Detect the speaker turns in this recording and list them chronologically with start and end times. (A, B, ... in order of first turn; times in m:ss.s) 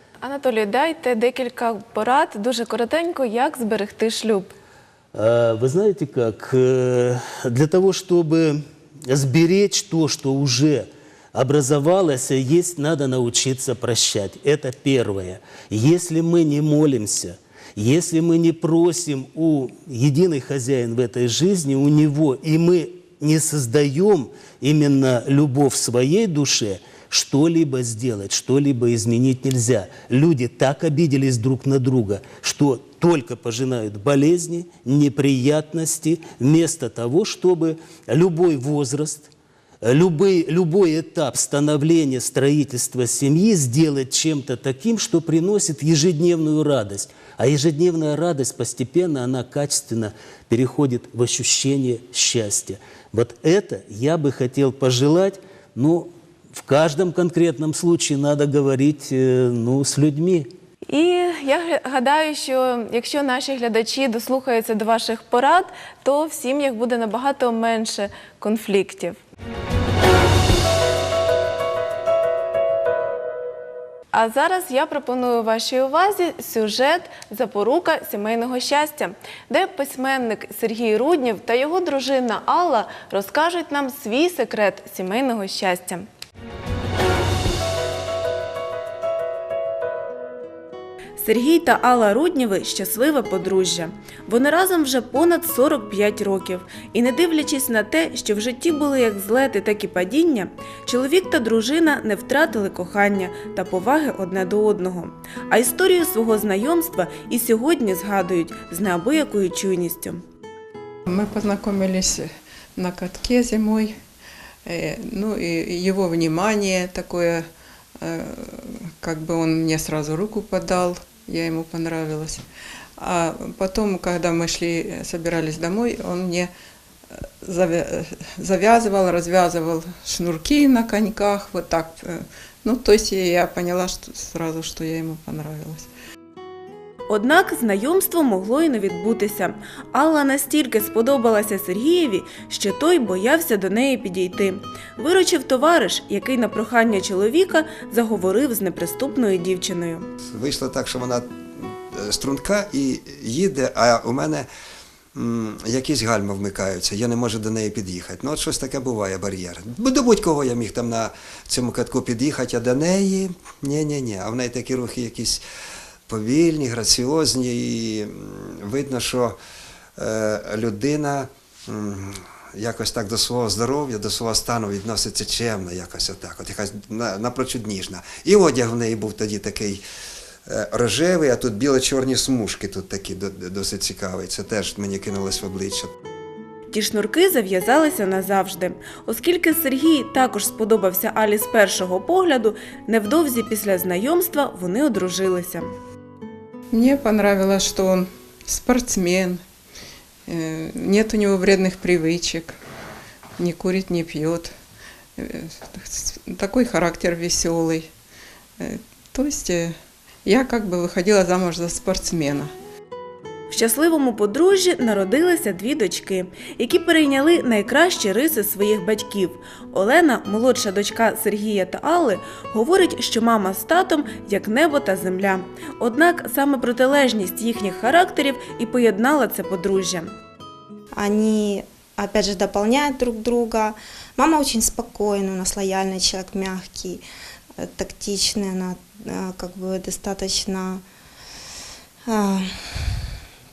0:00.2-0:04.5 A
0:05.1-0:39.3 B
0:39.8-1:00.5 B
1:00.9-1:09.2 A
1:14.1-1:26.0 A
1:31.2-1:50.2 A
1:51.1-1:54.0 C
1:54.6-1:57.5 C
1:58.0-2:02.4 C
2:03.0-2:06.5 C
2:07.1-2:15.9 C
2:17.1-2:30.1 A
2:30.3-2:34.5 D
2:35.1-2:45.4 D
2:46.1-2:49.4 D
2:50.0-2:59.8 D
3:00.5-3:05.9 D
3:06.7-3:15.7 A
3:16.7-3:19.4 C
3:20.3-3:22.6 C
3:23.4-3:24.5 C
3:25.2-3:27.9 C
3:28.6-3:32.5 C
3:33.5-3:50.1 A
3:51.0-3:57.0 E
3:57.6-4:00.8 E
4:02.1-4:02.9 E